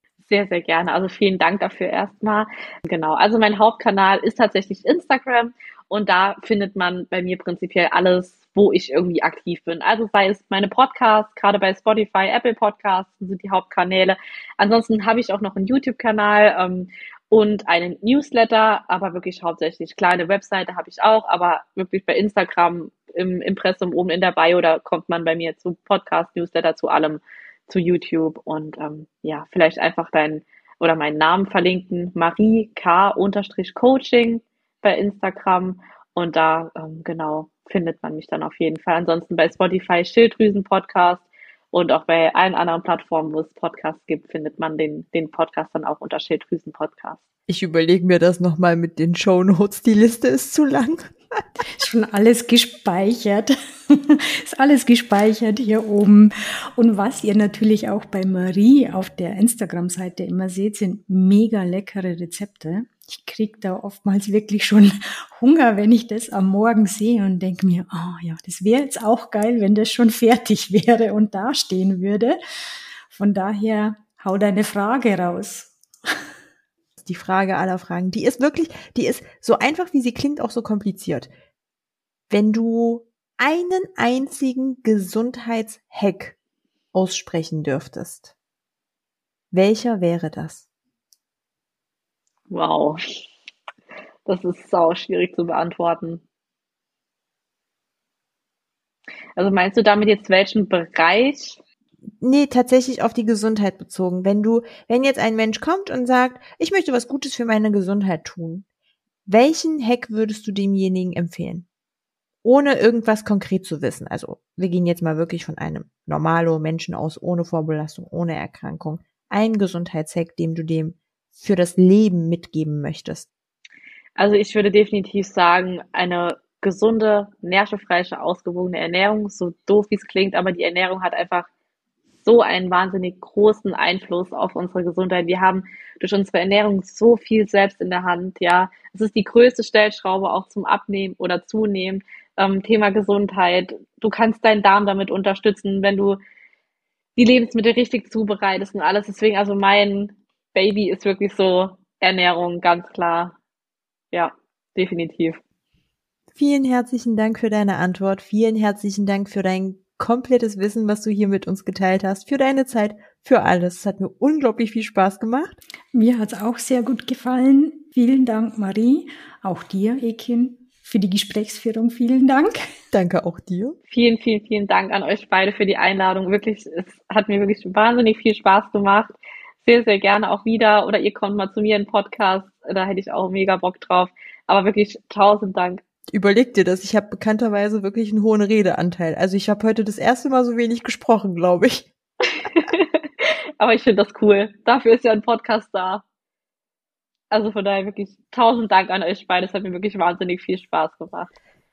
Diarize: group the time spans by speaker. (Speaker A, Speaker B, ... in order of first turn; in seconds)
Speaker A: 0.3-47.2, 92.5-93.2, 94.2-96.2, 99.4-101.6, 124.2-131.5, 132.2-146.2, 147.2-153.4, 154.1-155.4, 173.9-185.8, 192.3-196.0, 197.3-201.3
Speaker B: 47.5-51.4, 77.0-81.3, 82.3-86.3, 86.9-88.3, 89.5-90.6, 102.2-108.6, 109.3-111.7, 112.4-123.3, 156.3-165.6, 172.9-173.8, 186.1-191.9
Speaker C: 51.7-72.4, 73.1-76.2, 165.9-172.7